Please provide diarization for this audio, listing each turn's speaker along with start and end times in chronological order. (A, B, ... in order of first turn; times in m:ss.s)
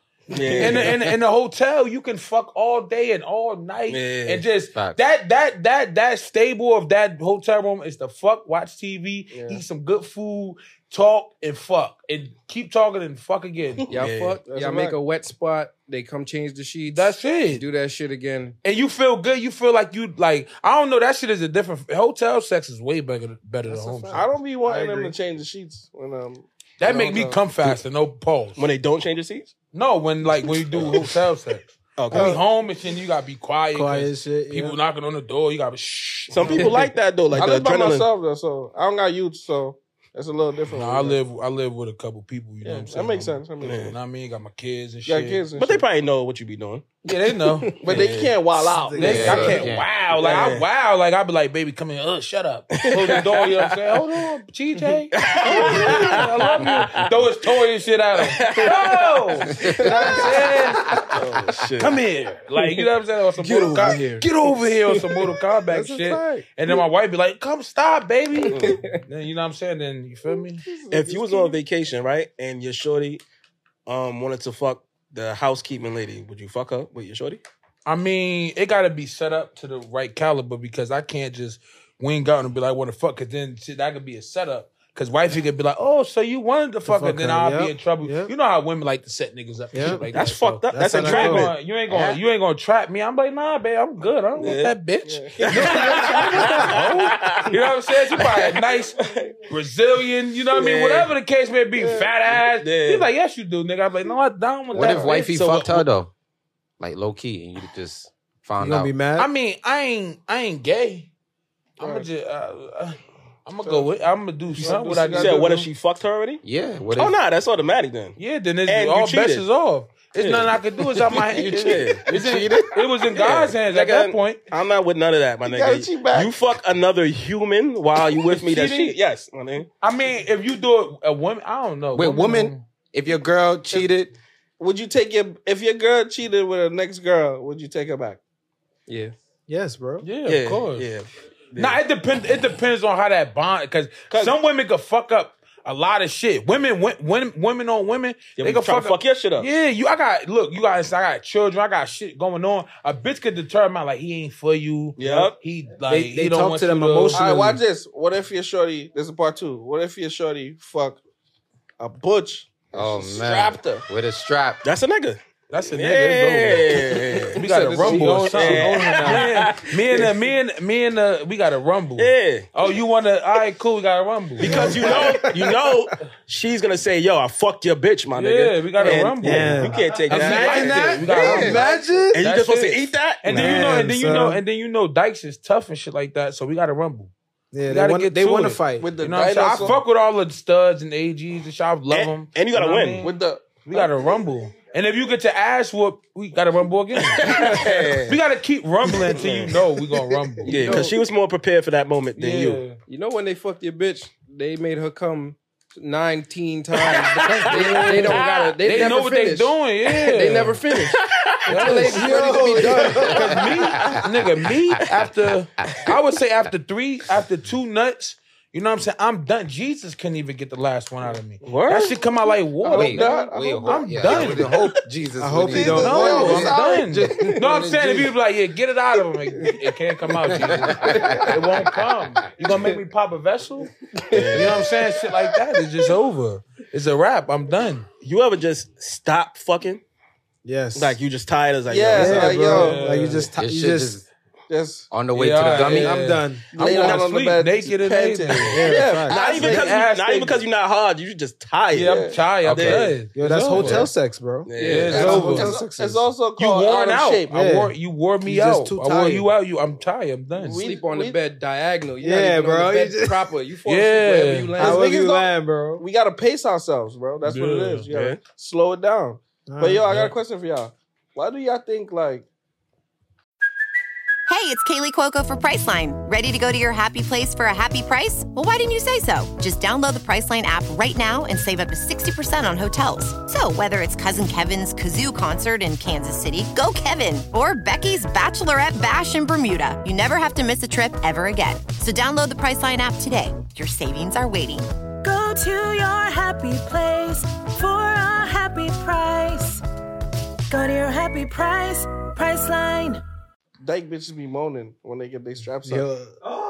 0:00.3-0:01.0 A
0:00.5-0:13.9 B
0:03.9-0:04.4 A
0:09.3-0:09.6 C
0:13.9-0:18.6 D
0:14.0-0:14.4 A
0:14.4-0:15.0 C
0:16.9-0:17.6 B
0:18.6-0:24.3 B
0:23.7-0:27.4 C
0:24.6-0:25.1 E
0:26.8-0:28.6 B
0:28.6-0:29.5 A
0:29.7-0:36.9 B
0:30.8-0:31.0 A
0:32.0-0:32.4 A
0:32.1-0:32.4 E
0:33.7-0:34.8 E
0:36.3-0:38.1 A
0:37.3-0:41.2 C
0:40.7-0:45.5 B
0:42.6-0:43.9 C
0:43.6-0:43.9 A
0:45.0-0:45.8 C
0:45.5-0:46.9 A
0:47.0-0:48.0 B
0:47.8-0:49.6 C
0:47.9-0:48.4 A
0:48.5-0:49.6 E
0:49.0-1:01.0 B
0:49.0-0:49.9 F
0:50.1-0:50.6 A
0:52.7-0:53.8 A
0:55.1-0:57.2 A
0:58.2-0:59.1 A
0:59.8-1:00.9 E
1:01.1-1:02.0 A
1:01.8-1:10.7 B
1:03.4-1:04.3 D
1:05.7-1:06.4 C
1:05.8-1:06.2 E
1:08.5-1:08.8 A
1:08.5-1:09.0 D
1:10.7-1:11.6 C
1:10.9-1:13.2 A
1:13.8-1:17.4 A
1:17.8-1:39.0 B
1:26.8-1:28.3 E
1:29.7-1:30.1 E
1:30.1-1:31.5 A
1:30.7-1:31.5 E
1:31.9-1:32.2 F
1:34.4-1:34.7 A
1:35.0-1:36.6 C
1:35.4-1:37.6 A
1:38.2-1:39.3 A
1:39.0-1:39.3 C
1:39.5-1:45.5 B
1:40.5-1:41.1 A
1:41.8-1:42.1 C
1:42.4-1:43.1 A
1:44.7-1:46.1 F
1:45.1-1:45.8 A
1:46.8-1:48.9 F
1:48.6-1:49.3 E
1:49.2-1:51.1 B
1:51.8-1:55.7 B
1:51.8-1:52.0 C
1:54.6-1:55.5 C
1:55.1-1:59.4 A
1:56.4-1:57.1 F
1:58.2-2:04.4 B
2:00.2-2:02.1 A
2:01.4-2:02.6 F
2:03.1-2:09.7 A
2:05.4-2:06.3 C
2:08.2-2:09.0 B
2:09.8-2:12.6 B
2:11.9-2:14.1 F
2:14.6-2:18.2 C
2:18.9-2:19.2 D
2:19.5-2:20.1 E
2:20.0-2:20.9 B
2:20.2-2:21.8 A
2:21.5-2:37.3 B
2:24.1-2:24.4 A
2:28.4-2:29.5 A
2:35.0-2:35.4 A
2:35.9-2:37.6 E
2:37.1-2:41.0 C
2:41.8-2:43.8 C
2:42.7-2:44.6 F
2:44.6-2:45.2 A
2:45.5-2:55.3 B
2:45.7-2:47.5 A
2:47.4-2:49.2 D
2:47.8-2:48.6 E
2:48.2-2:50.1 A
2:52.0-2:52.5 A
2:54.4-3:01.5 A
2:54.4-2:55.6 E
2:58.1-3:07.1 B
2:59.2-3:02.3 E
2:59.9-3:02.1 C
3:02.1-3:03.6 A
3:03.2-3:04.4 E
3:07.5-3:09.0 E
3:07.7-3:20.8 B
3:08.8-3:09.8 C
3:11.9-3:13.1 A
3:13.0-3:13.9 C
3:17.0-3:18.2 A
3:19.0-3:19.5 A
3:20.4-3:20.9 D
3:20.4-3:22.6 A
3:22.2-3:22.8 B
3:22.9-3:33.4 D
3:26.8-3:28.5 A
3:27.4-3:30.6 B
3:27.6-3:28.0 E
3:30.9-3:31.6 A
3:31.5-3:44.6 B
3:31.8-3:33.9 E
3:41.4-3:42.0 A
3:42.6-3:44.6 C
3:42.7-3:46.3 F
3:45.2-3:47.8 E
3:45.5-3:47.3 C
3:45.7-3:53.7 B
3:47.2-3:48.0 F
3:50.4-3:51.2 F
3:50.9-3:51.2 C
3:54.1-3:54.7 A
3:54.3-3:57.9 B
3:58.0-3:59.8 A
4:00.4-4:01.0 E
4:00.7-4:02.5 A
4:01.7-4:02.8 C
4:01.9-4:04.0 E
4:02.5-4:03.3 B
4:03.3-4:04.0 F
4:04.5-4:04.9 C
4:04.9-4:06.0 F
4:05.1-4:10.4 B
4:05.4-4:07.0 E
4:06.5-4:09.7 C
4:06.7-4:07.0 A
4:08.3-4:09.5 E
4:09.1-4:13.0 A
4:11.7-4:13.9 B
4:11.8-4:12.2 C
4:12.5-4:12.8 F
4:13.1-4:16.1 E
4:14.4-4:15.0 A
4:14.5-4:15.2 D
4:14.6-4:15.5 B
4:14.9-4:17.3 C
4:16.4-4:20.6 B
4:17.3-4:17.7 E
4:18.2-4:19.3 E
4:20.4-4:21.2 C
4:20.5-4:24.8 D
4:22.0-4:23.3 E
4:23.6-4:24.6 B
4:24.6-4:25.8 E
4:24.6-4:32.2 C
4:27.2-4:27.9 B
4:27.9-4:28.2 A
4:29.5-4:29.9 E
4:29.8-4:30.1 B
4:34.3-4:54.7 G
4:55.0-4:59.6 H
5:00.5-5:03.0 H
5:03.6-5:05.9 C
5:05.6-5:06.2 E